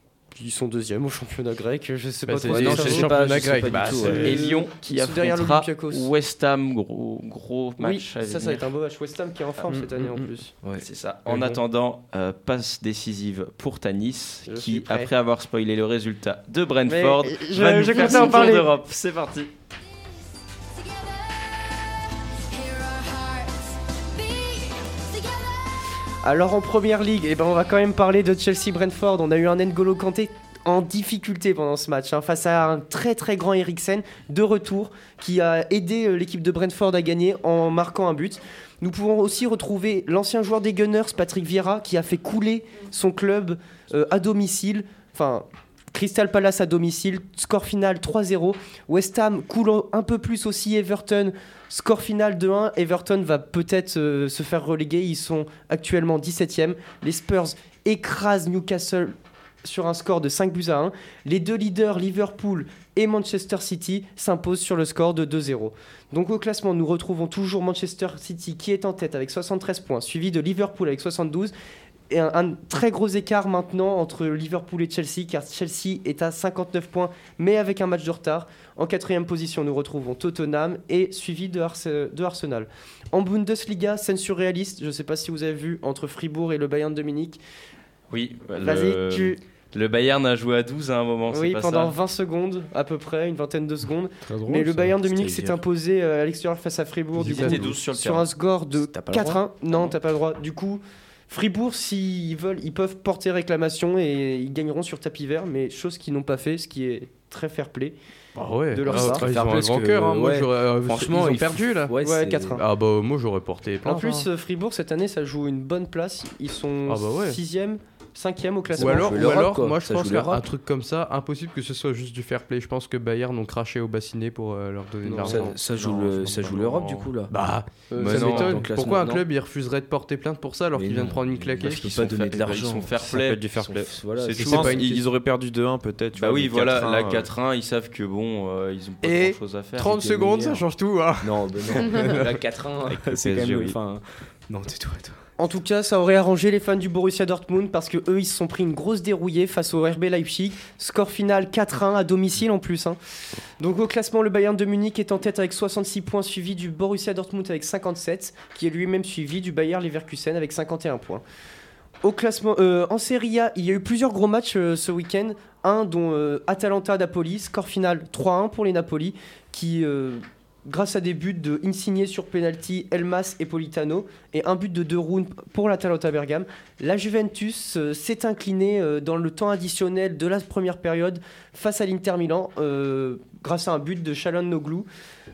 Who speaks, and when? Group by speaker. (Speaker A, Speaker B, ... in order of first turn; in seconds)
Speaker A: 0.3-6.1, 7.8-10.5, 14.5-15.1, 16.9-18.7, 26.2-71.5, 72.1-87.4, 88.6-89.4, 91.3-108.0, 108.7-109.2, 112.0-112.6, 113.8-119.4, 125.0-125.5, 127.9-128.3, 145.4-153.0, 153.6-161.2, 162.0-184.9
Speaker B: 2.3-4.4, 9.7-10.3, 11.3-11.6, 97.2-97.6, 108.3-111.9, 112.5-114.3, 116.8-117.4, 118.8-125.6, 127.3-131.8, 134.4-135.0, 139.0-142.3
Speaker C: 2.4-4.4, 94.2-95.6, 98.9-99.4, 108.9-112.6, 118.7-120.5, 125.2-127.3, 128.0-129.2, 130.7-134.8, 139.8-140.7, 141.2-145.2
Speaker D: 4.1-8.7, 10.8-19.5, 88.1-91.9, 97.2-98.2, 128.1-128.5, 131.6-133.4, 136.1-140.0
Speaker E: 125.8-126.8, 133.0-137.3, 142.9-143.8